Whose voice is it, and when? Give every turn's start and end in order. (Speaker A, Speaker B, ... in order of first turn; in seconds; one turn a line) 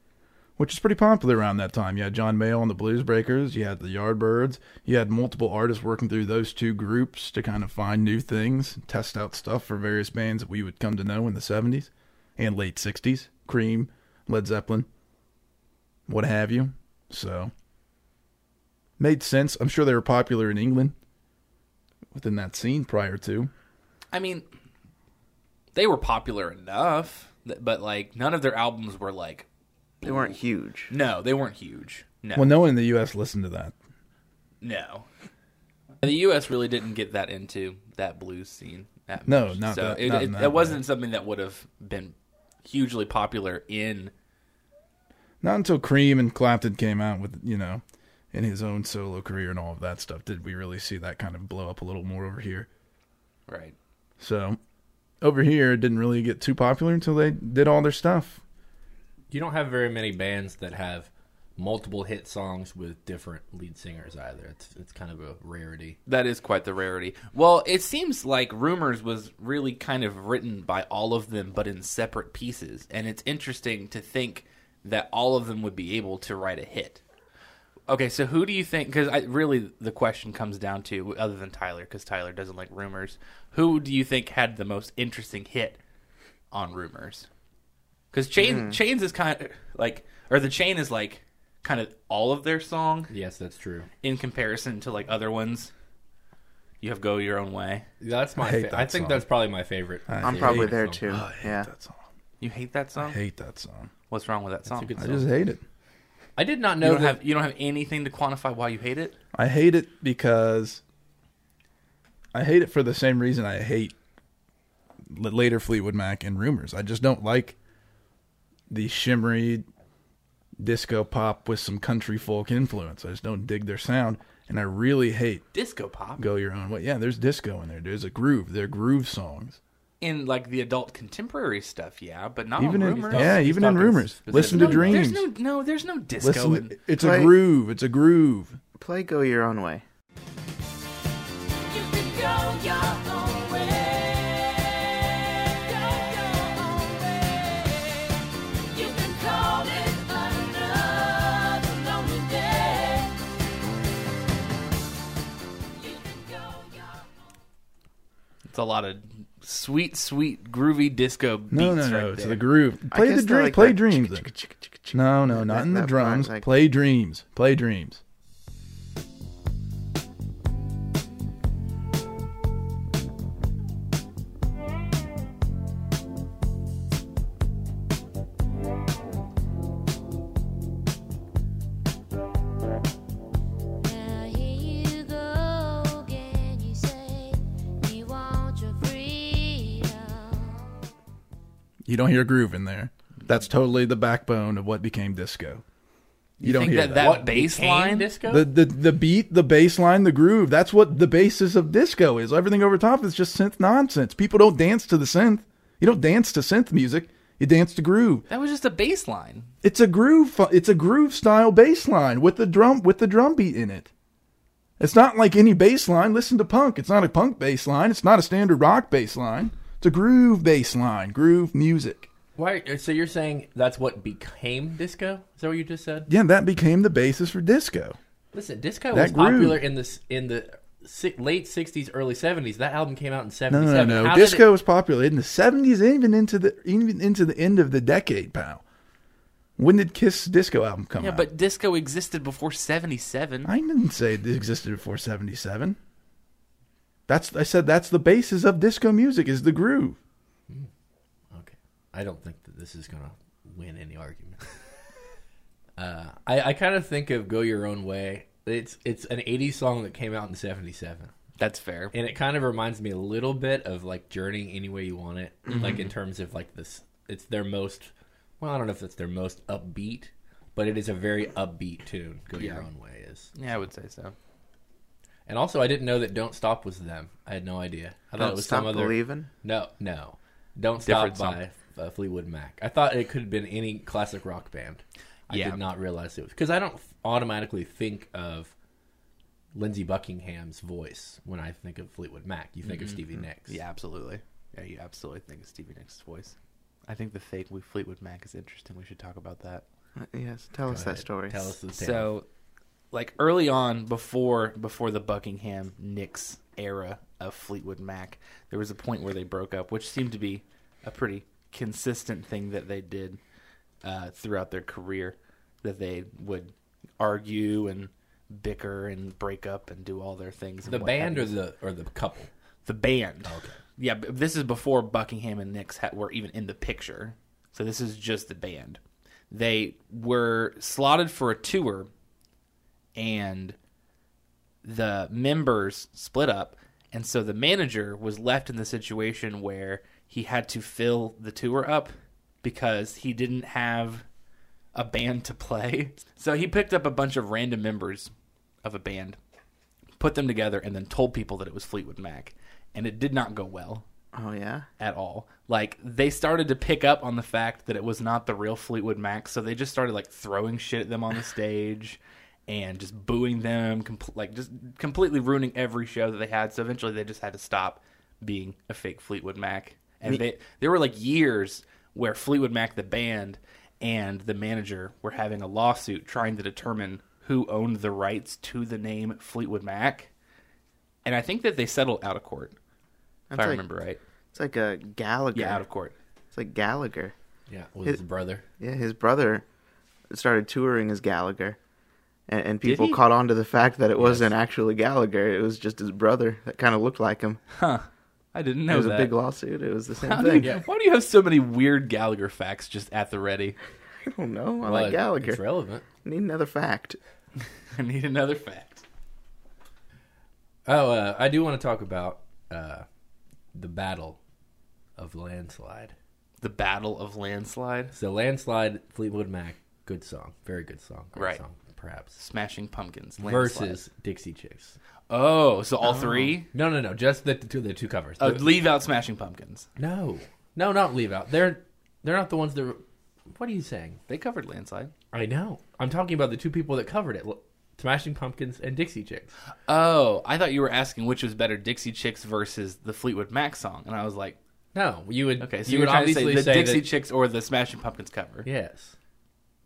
Speaker A: 0.6-14.9
Speaker A: 16.1-17.5
Speaker A: 19.0-20.9
Speaker A: 22.1-23.5
Speaker B: 24.1-24.5
Speaker B: 25.7-29.5
Speaker C: 30.0-30.9
Speaker B: 30.0-30.3
Speaker B: 30.9-32.6
Speaker A: 32.3-33.7
Speaker B: 34.6-35.1
Speaker B: 36.0-44.1
Speaker A: 39.3-40.8
Speaker A: 45.4-52.7
Speaker B: 53.5-53.8
Speaker A: 54.2-54.6
Speaker A: 55.2-58.4
Speaker D: 59.3-66.0
Speaker B: 66.1-77.0
Speaker B: 77.9-85.8
Speaker B: 86.5-87.3
Speaker B: 88.1-93.1
Speaker C: 88.4-88.8
Speaker D: 93.1-93.9
Speaker B: 94.0-95.7
Speaker B: 96.8-97.9
Speaker D: 98.0-101.0
Speaker A: 98.4-99.3
Speaker A: 100.1-102.0
Speaker C: 100.2-101.7
Speaker B: 102.4-103.2
Speaker A: 103.0-103.9
Speaker B: 104.1-105.0
Speaker D: 104.7-105.3
Speaker A: 105.0-105.6
Speaker D: 106.4-107.2
Speaker B: 106.8-109.2
Speaker A: 109.3-110.8
Speaker A: 112.3-114.0
Speaker A: 115.1-117.6
Speaker A: 118.7-119.7
Speaker A: 120.6-125.4
Speaker B: 125.5-126.2
Speaker A: 126.2-129.6
Speaker B: 130.0-133.4
Speaker A: 132.6-135.3
Speaker D: 133.0-135.0
Speaker B: 134.3-136.8
Speaker A: 136.2-138.6
Speaker C: 137.0-137.4
Speaker C: 138.8-139.8
Speaker E: 141.7-148.0
Speaker E: 148.7-153.1
Speaker E: 155.8-157.0
Speaker B: 158.5-162.4
Speaker A: 161.5-164.3
Speaker C: 162.9-166.5
Speaker A: 164.9-168.0
Speaker E: 183.8-190.7
Speaker A: 191.9-195.6
Speaker B: 196.4-198.1
Speaker A: 196.4-197.2
Speaker D: 197.0-198.5
Speaker A: 198.3-208.2
Speaker B: 208.3-209.5
Speaker A: 209.6-213.9
Speaker A: 214.8-222.1
Speaker D: 222.4-226.1
Speaker A: 226.1-228.0
Speaker D: 228.3-234.5
Speaker A: 228.9-229.7
Speaker A: 233.5-238.6
Speaker A: 239.6-241.3
Speaker B: 241.0-243.5
Speaker A: 243.4-245.8
Speaker A: 247.1-250.0
Speaker D: 251.3-254.6
Speaker D: 255.8-261.1
Speaker B: 261.4-261.9
Speaker D: 261.9-273.3
Speaker B: 265.5-265.9
Speaker B: 272.4-272.7
Speaker B: 273.4-274.2
Speaker D: 275.3-288.5
Speaker C: 278.2-279.3
Speaker B: 280.9-281.4
Speaker B: 285.3-285.6
Speaker D: 289.5-293.6
Speaker B: 292.6-296.4
Speaker B: 296.9-299.6
Speaker C: 300.0-301.5
Speaker D: 300.7-302.1
Speaker B: 301.7-302.2
Speaker B: 302.9-313.2
Speaker B: 313.8-321.3
Speaker D: 320.7-322.3
Speaker B: 322.7-331.9
Speaker D: 323.2-323.6
Speaker B: 332.9-333.6
Speaker B: 334.6-344.1
Speaker B: 344.8-348.1
Speaker B: 348.6-349.2
Speaker B: 350.0-353.9
Speaker C: 354.1-354.7
Speaker B: 354.8-380.1
Speaker B: 381.1-382.6
Speaker C: 383.3-383.6
Speaker B: 383.3-384.0
Speaker C: 384.3-385.6
Speaker B: 385.3-385.9
Speaker C: 386.3-387.1
Speaker D: 387.5-388.4
Speaker C: 388.6-389.4
Speaker C: 390.1-391.6
Speaker C: 392.3-397.4
Speaker B: 392.6-393.0
Speaker D: 394.0-394.3
Speaker B: 397.6-399.1
Speaker C: 398.7-400.5
Speaker B: 400.0-403.6
Speaker D: 400.4-400.6
Speaker C: 404.1-405.4
Speaker D: 404.6-405.9
Speaker C: 406.0-407.0
Speaker B: 407.7-408.8
Speaker D: 410.7-412.9
Speaker D: 413.5-414.2
Speaker D: 415.0-415.9
Speaker B: 416.4-417.9
Speaker D: 417.9-422.2
Speaker B: 421.2-421.4
Speaker B: 422.2-423.8
Speaker D: 423.2-424.8
Speaker B: 425.1-426.5
Speaker C: 425.9-426.3
Speaker D: 426.5-428.5
Speaker B: 428.2-429.7
Speaker D: 429.8-434.0
Speaker B: 434.1-434.9
Speaker D: 435.1-439.3
Speaker B: 439.7-444.4
Speaker D: 444.8-446.9
Speaker B: 445.4-448.5
Speaker D: 448.4-448.9